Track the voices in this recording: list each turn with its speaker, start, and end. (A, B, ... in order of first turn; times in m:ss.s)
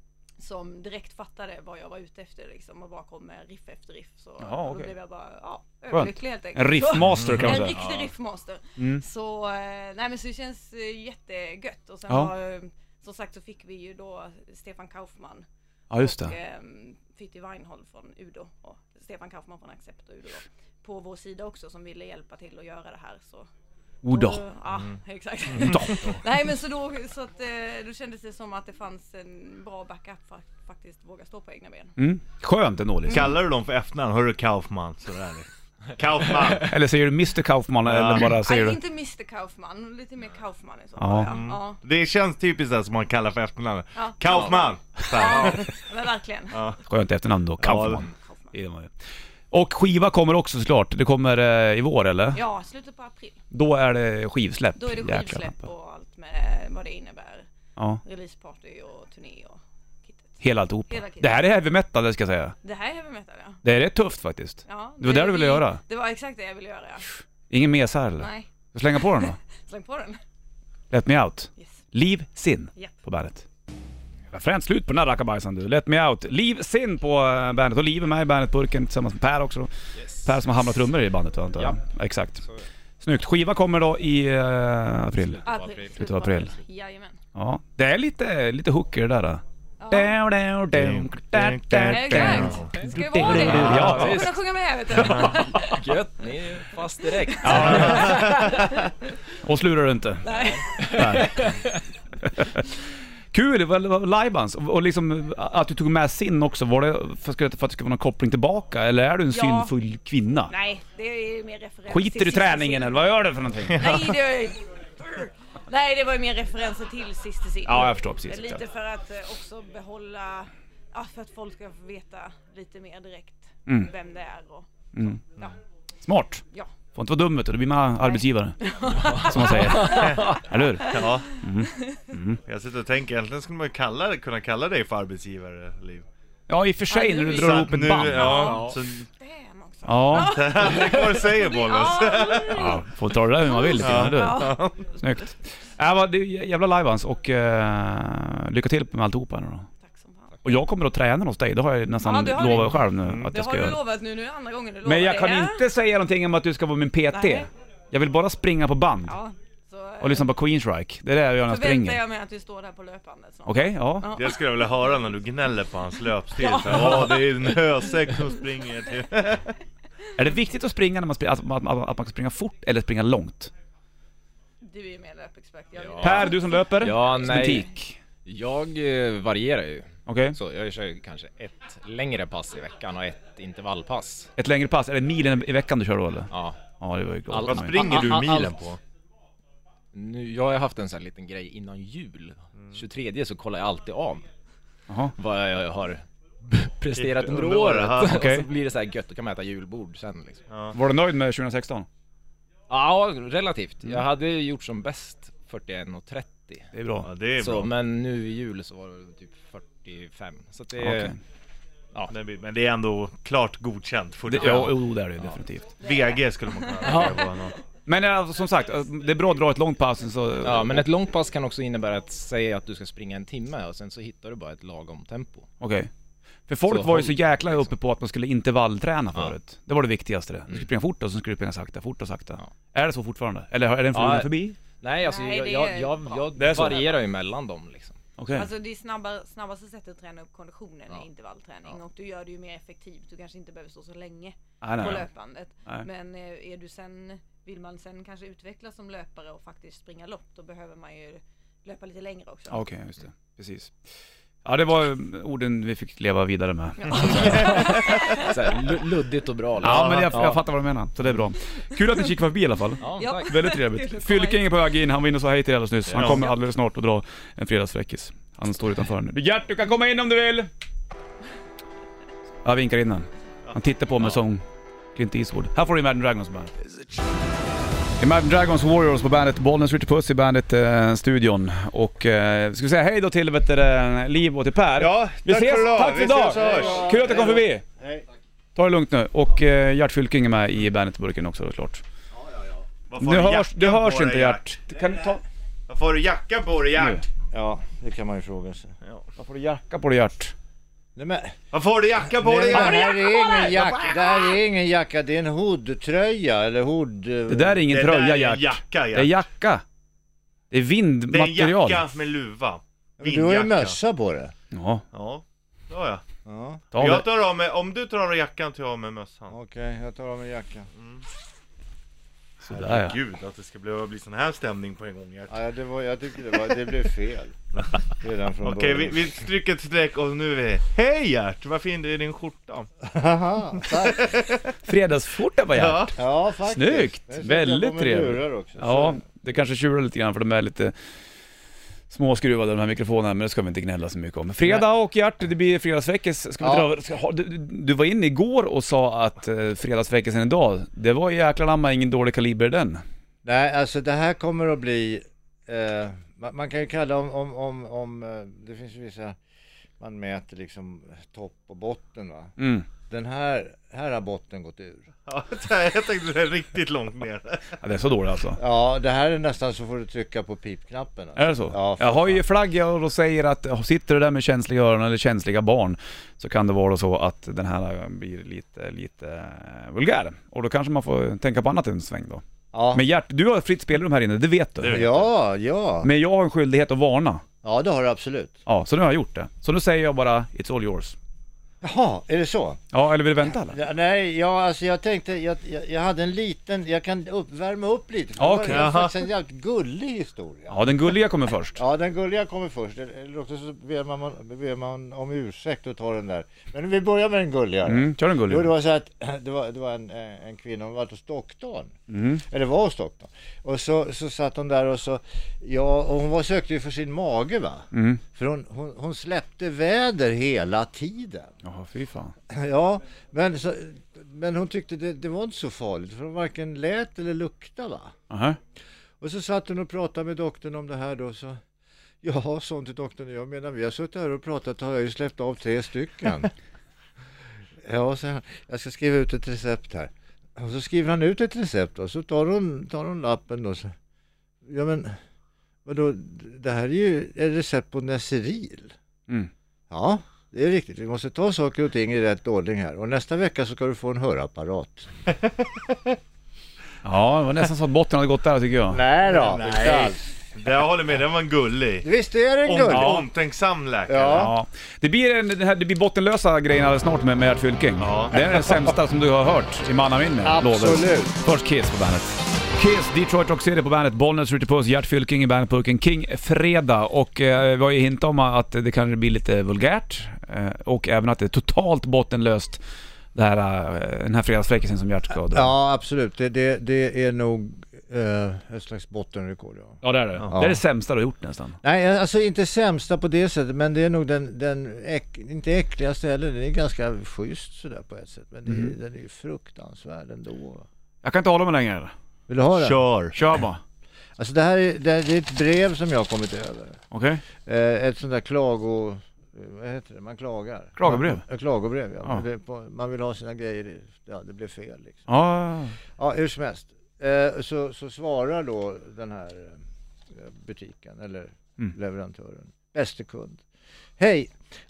0:00.4-0:23.5 A
0:04.4-0:04.9 B
0:05.9-0:07.8 B
0:07.2-0:07.6 C
0:07.7-0:08.1 D
0:08.8-0:09.0 B
0:15.9-0:16.3 B
0:24.0-0:24.4 B
0:24.1-0:32.0 A
0:25.5-0:25.8 C
0:25.6-0:26.2 B
0:32.0-0:33.3 B
0:33.1-0:33.3 A
0:33.1-0:36.7 C
0:36.6-0:38.8 B
0:37.8-0:38.4 C
0:38.4-0:41.8 A
0:41.0-0:41.3 B
0:41.2-0:45.8 C
0:43.9-0:46.7 A
0:46.5-0:46.8 C
0:46.9-0:48.9 B
0:47.6-0:48.1 C
0:48.1-0:48.5 A
0:49.5-0:52.4 B
0:52.3-0:53.4 A
0:53.5-0:55.6 B
0:54.8-0:57.5 A
0:58.0-1:01.4 A
1:00.4-1:02.5 B
1:02.6-1:03.6 A
1:03.6-1:05.8 B
1:04.7-1:07.2 A
1:07.5-1:09.4 B
1:08.2-1:10.2 A
1:10.9-1:13.4 B
1:14.3-1:19.7 B
1:19.9-1:20.4 D
1:20.2-1:22.4 B
1:22.4-1:22.7 D
1:23.0-1:25.4 B
1:25.2-1:26.6 D
1:25.4-1:27.2 A
1:26.0-1:26.5 B
1:27.3-1:34.3 B
1:29.8-1:30.2 A
1:30.7-1:32.8 C
1:31.8-1:35.8 A
1:32.7-1:34.4 D
1:34.9-1:35.4 C
1:35.0-1:38.6 D
1:37.2-1:38.9 A
1:37.4-1:38.2 B
1:37.6-1:38.7 C
1:39.4-1:40.3 B
1:40.2-1:41.4 A
1:40.4-1:41.8 D
1:40.9-1:41.5 B
1:42.2-1:42.6 B
1:43.3-1:50.5 B
1:49.3-1:49.7 A
1:50.5-1:53.0 A
1:51.9-1:53.8 B
1:53.7-2:04.7 A
1:53.8-1:54.0 C
1:57.6-1:58.6 B
2:04.9-2:05.2 B
2:06.0-2:06.4 B
2:06.9-2:08.6 B
2:08.0-2:12.1 A
2:08.9-2:10.4 D
2:09.2-2:12.4 B
2:09.9-2:11.4 C
2:12.4-2:16.0 C
2:16.5-2:18.6 B
2:16.9-2:25.3 A
2:17.3-2:19.1 C
2:18.4-2:18.8 D
2:19.8-2:20.5 B
2:20.1-2:22.8 C
2:22.5-2:29.7 B
2:23.8-2:24.8 C
2:29.8-2:30.4 A
2:30.4-2:33.8 B
2:32.0-2:35.6 A
2:33.0-2:33.3 C
2:34.8-2:39.2 B
2:37.1-2:37.5 A
2:39.1-2:40.3 A
2:40.0-2:42.0 B
2:41.5-2:44.9 A
2:43.4-2:44.1 B
2:44.1-2:49.4 C
2:46.3-2:48.4 A
2:50.2-2:53.5 B
2:54.6-2:56.7 A
2:55.8-2:57.7 D
2:56.0-2:58.0 B
2:58.2-3:04.3 D
3:00.0-3:00.4 B
3:04.4-3:08.0 B
3:06.3-3:06.6 D
3:07.3-3:08.3 D
3:07.3-3:08.8 C
3:07.8-3:08.6 E
3:09.9-3:14.2 D
3:12.6-3:12.8 C
3:14.9-3:15.1 B
3:15.2-3:20.5 D
3:16.9-3:18.2 C
3:18.0-3:18.5 B
3:20.5-3:20.8 C
3:20.7-3:21.9 B
3:22.7-3:26.7 D
3:26.7-3:27.1 B
3:27.0-3:27.7 C
3:27.4-3:31.2 D
3:30.8-3:31.2 B
3:32.1-3:34.8 C
3:34.2-3:35.7 B
3:35.8-3:37.5 A
3:35.8-3:37.5 C
3:36.8-3:37.2 B
3:37.8-3:40.9 B
3:40.4-3:45.5 D
3:45.6-3:45.9 B
3:46.5-3:54.6 B
3:46.7-3:47.7 D
3:53.9-3:58.0 D
3:55.0-3:57.0 A
3:56.4-3:56.8 B
3:58.2-3:58.5 B
3:58.3-4:12.6 A
4:04.6-4:05.0 B
4:12.5-4:13.7 B
4:14.4-4:17.6 B
4:16.8-4:18.6 A
4:17.2-4:20.4 D
4:19.6-4:30.5 B
4:19.6-4:20.1 C
4:21.8-4:22.1 A
4:22.8-4:23.4 D
4:22.9-4:24.6 A
4:25.9-4:26.2 D
4:25.9-4:26.3 C
4:32.4-4:34.4 B
4:33.5-4:34.0 C
4:34.9-4:36.5 B
4:38.0-4:47.6 B
4:44.8-4:46.9 C
4:46.0-4:48.0 E
4:48.5-4:51.8 B
4:52.2-4:52.6 E
4:52.9-4:54.5 C
4:53.0-4:55.2 B
4:55.7-4:57.0 C
4:56.8-4:57.0 B
4:57.3-4:58.7 E
4:59.2-5:00.3 B
5:01.0-5:01.4 E
5:01.5-5:03.9 C
5:02.0-5:07.6 E
5:07.3-5:09.6 B
5:07.7-5:09.2 C
5:10.5-5:11.8 B
5:11.1-5:13.8 C
5:13.0-5:14.3 E
5:14.5-5:14.8 B
5:14.9-5:16.0 C
5:16.2-5:16.6 E
5:16.7-5:17.1 B
5:16.7-5:19.4 C
5:19.3-5:20.7 E
5:20.8-5:21.0 C
5:22.4-5:23.0 B
5:22.5-5:25.3 C
5:25.3-5:27.4 E
5:27.9-5:29.0 E
5:28.4-5:32.7 C
5:32.8-5:34.2 E
5:33.6-5:34.4 C
5:34.6-5:36.0 B
5:35.5-5:36.0 C
5:36.0-5:39.0 E
5:36.5-5:40.7 B
5:41.9-5:52.8 B
5:46.4-5:46.7 E
5:53.2-5:59.2 E
5:59.8-6:02.3 E
6:02.4-6:02.6 B
6:02.9-6:04.9 E
6:05.1-6:07.5 C
6:07.6-6:08.4 B
6:08.4-6:12.2 E
6:11.2-6:24.9 B
6:22.5-6:22.8 E
6:24.6-6:25.1 C
6:24.7-6:25.9 E
6:25.8-6:27.2 B
6:27.4-6:28.4 E
6:28.5-6:31.0 B
6:31.6-6:32.6 E
6:32.7-6:33.6 B
6:33.4-6:40.6 E
6:38.2-6:38.7 B
6:38.5-6:38.9 C
6:40.5-6:41.6 B
6:41.6-7:01.3 E
6:47.6-6:48.5 B
6:51.9-6:52.2 B
6:57.7-6:58.0 B
7:01.4-7:02.1 B
7:02.3-7:07.9 E
7:08.1-7:08.4 B
7:09.0-7:11.4 E
7:12.0-7:16.3 E
7:17.6-7:23.7 E
7:24.4-7:25.0 E
7:25.6-7:28.7 E
7:29.7-7:34.9 E
7:36.8-7:38.8 B
7:38.7-7:40.1 E
7:39.1-7:41.8 C
7:41.8-7:43.0 E
7:42.4-7:44.3 C
7:42.7-7:43.0 B
7:43.9-7:44.3 E
7:44.1-8:02.6 B
7:47.8-7:48.2 C
7:50.2-7:51.2 E
8:03.1-8:05.5 B
8:05.3-8:10.6 E
8:09.8-8:11.6 B
8:11.6-8:20.6 E
8:18.5-8:18.7 B
8:21.0-8:21.9 B
8:22.3-8:22.8 E
8:22.6-8:23.2 C
8:23.1-8:23.6 B
8:24.2-8:26.8 E
8:26.9-8:27.2 B
8:27.4-8:35.0 E
8:30.8-8:31.2 B
8:35.1-8:35.8 B
8:36.0-8:39.6 E
8:40.1-8:43.4 E
8:44.0-8:44.3 E